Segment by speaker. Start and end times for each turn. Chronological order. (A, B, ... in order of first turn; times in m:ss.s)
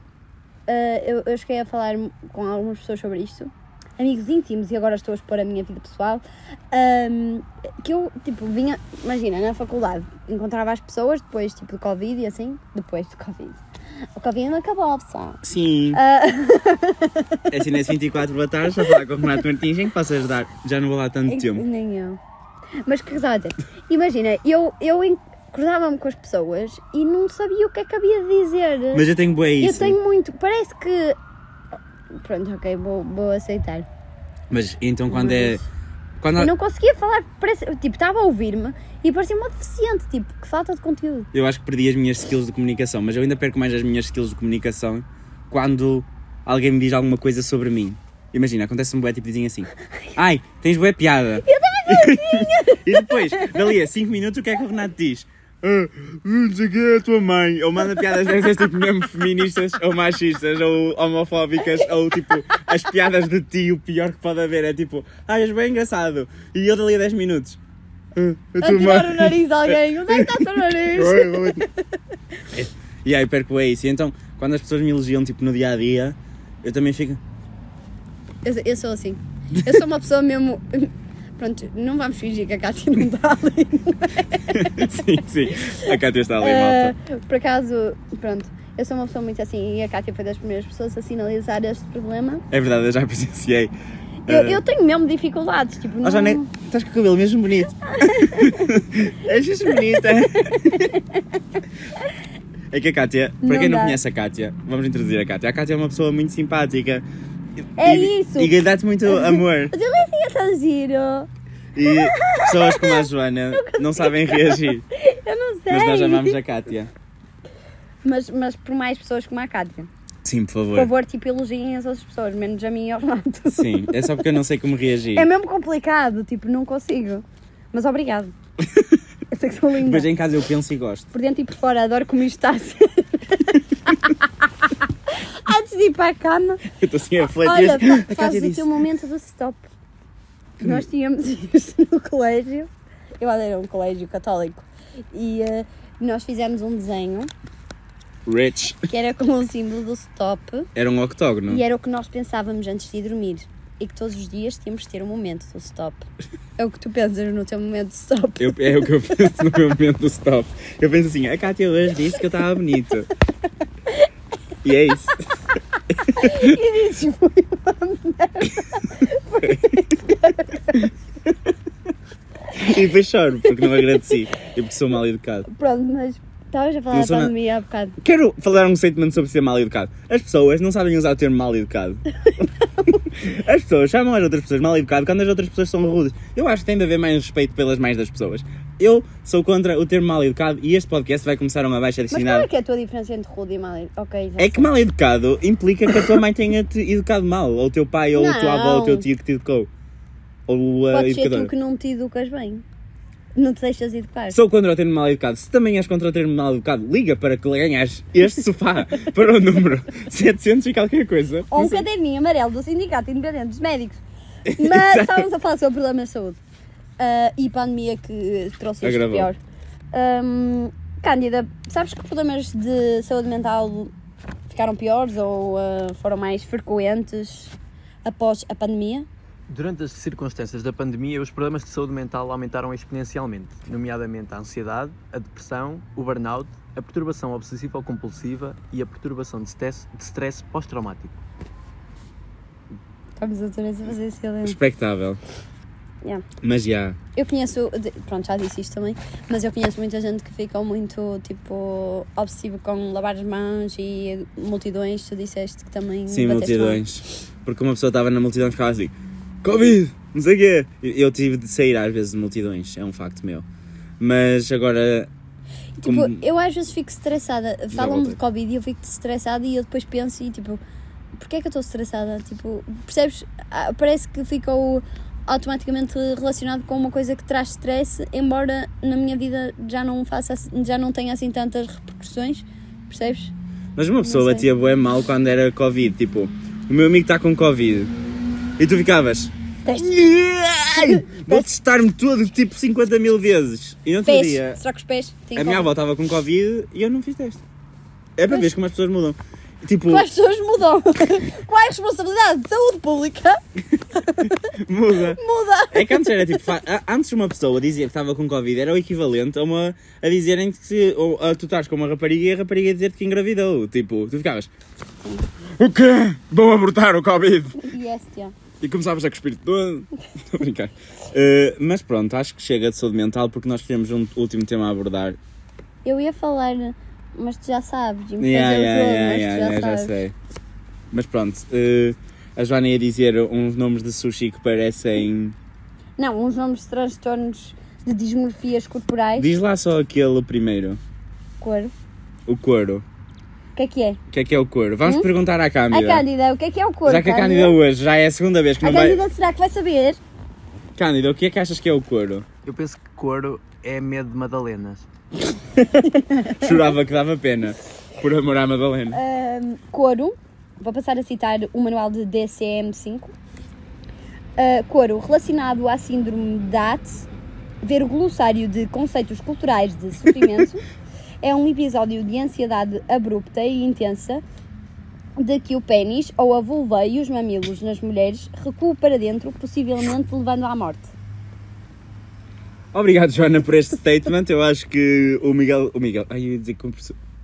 0:00.7-0:13.6 A
0:14.2-0:15.4 A
0:15.4-0:16.0 B
0:15.9-0:17.4 A
0:17.5-0:21.7 B
0:21.3-0:22.2 A
0:22.8-0:29.0 A
0:28.9-0:30.0 B
0:29.6-0:31.2 A
0:32.1-0:33.9 A
0:34.5-0:35.6 B
0:35.1-0:35.6 A
0:36.2-0:36.5 B
0:36.4-0:41.3 A
0:41.3-1:07.6 B
0:51.4-0:53.6 A
1:08.2-1:11.6 B
1:08.6-1:11.7 A
1:12.5-1:17.2 B
1:18.4-1:24.9 A
1:24.5-1:27.0 B
1:26.4-1:32.4 A
1:32.5-1:33.7 B
1:34.3-1:34.6 B
1:34.3-1:36.5 A
1:36.0-1:40.9 B
1:38.0-1:38.7 A
1:40.7-1:41.2 A
1:42.7-1:47.0 B
1:43.4-1:44.0 A
1:47.8-1:48.6 A
1:47.8-1:49.7 B
1:49.1-1:51.3 A
1:51.8-1:54.8 B
1:51.9-1:56.4 A
1:55.7-1:56.9 B
1:58.0-1:59.9 A
2:00.2-2:00.9 B
2:00.8-2:04.1 A
2:03.5-2:05.3 B
2:05.2-2:08.3 A
2:09.3-2:10.1 A
2:09.8-2:11.1 B
2:11.1-2:14.2 A
2:15.5-2:16.6 A
2:16.8-2:18.7 B
2:17.4-2:19.7 A
2:20.6-2:22.7 A
2:23.2-2:27.3 A
2:28.3-2:28.8 B
2:28.9-2:30.7 A
2:30.8-2:31.6 B
2:31.5-2:36.1 A
2:36.6-2:38.6 A
2:38.4-2:43.1 B
2:44.6-2:45.2 B
2:46.1-2:46.5 B
2:46.1-2:50.8 A
2:52.5-2:55.5 B
2:55.5-2:58.0 A
2:56.9-2:57.4 B
2:58.0-3:02.0 B
3:03.1-3:12.5 B
3:12.1-3:14.7 A
3:14.4-3:19.7 B
3:18.1-3:19.1 A
3:20.5-3:21.5 B
3:20.9-3:22.6 A
3:23.4-3:24.4 A
3:24.3-3:31.8 B
3:31.5-3:34.0 A
3:34.5-3:35.3 B
3:34.5-3:36.4 A
3:37.0-3:39.4 A
3:38.8-3:39.3 B
3:39.9-3:43.9 A
3:44.5-3:49.1 A
3:49.5-4:01.2 C
4:03.2-4:04.6 A
4:04.4-4:05.2 B
4:06.4-4:07.0 B
4:07.2-4:16.8 A
4:16.1-4:23.4 B
4:24.0-4:25.1 B
4:25.8-4:30.6 A
4:25.8-4:26.2 B
4:27.7-4:28.2 B
4:31.2-4:43.3 A
4:43.8-4:47.9 B
4:44.0-4:44.5 A
4:48.6-4:54.6 B
4:49.6-4:49.9 A
4:50.8-4:51.5 A
4:54.0-4:55.7 A
4:55.4-4:57.4 B
4:58.2-5:00.1 B
4:59.9-5:03.4 A
5:04.0-5:04.3 A
5:04.5-5:05.2 B
5:05.2-5:06.4 A
5:05.7-5:14.5 B
5:15.6-5:17.6 B
5:17.6-5:18.3 A
5:18.6-5:25.2 B
5:25.8-5:29.9 A
5:28.2-5:30.1 B
5:30.9-5:35.4 B
5:36.0-5:39.3 A
5:39.2-5:40.8 B
5:41.4-5:41.7 A
5:42.3-5:42.8 B
5:43.6-5:44.0 A
5:44.1-5:46.0 B
5:45.7-5:47.6 A
5:46.9-5:49.0 B
5:48.6-5:50.0 A
5:50.8-5:52.3 B
5:52.4-5:54.9 C
5:56.2-5:56.5 A
5:56.4-5:59.0 B
5:58.9-6:03.1 A
6:04.4-6:07.0 A
6:07.6-6:10.6 A
6:11.2-6:14.2 A
6:15.2-6:20.9 A
6:22.7-6:27.0 B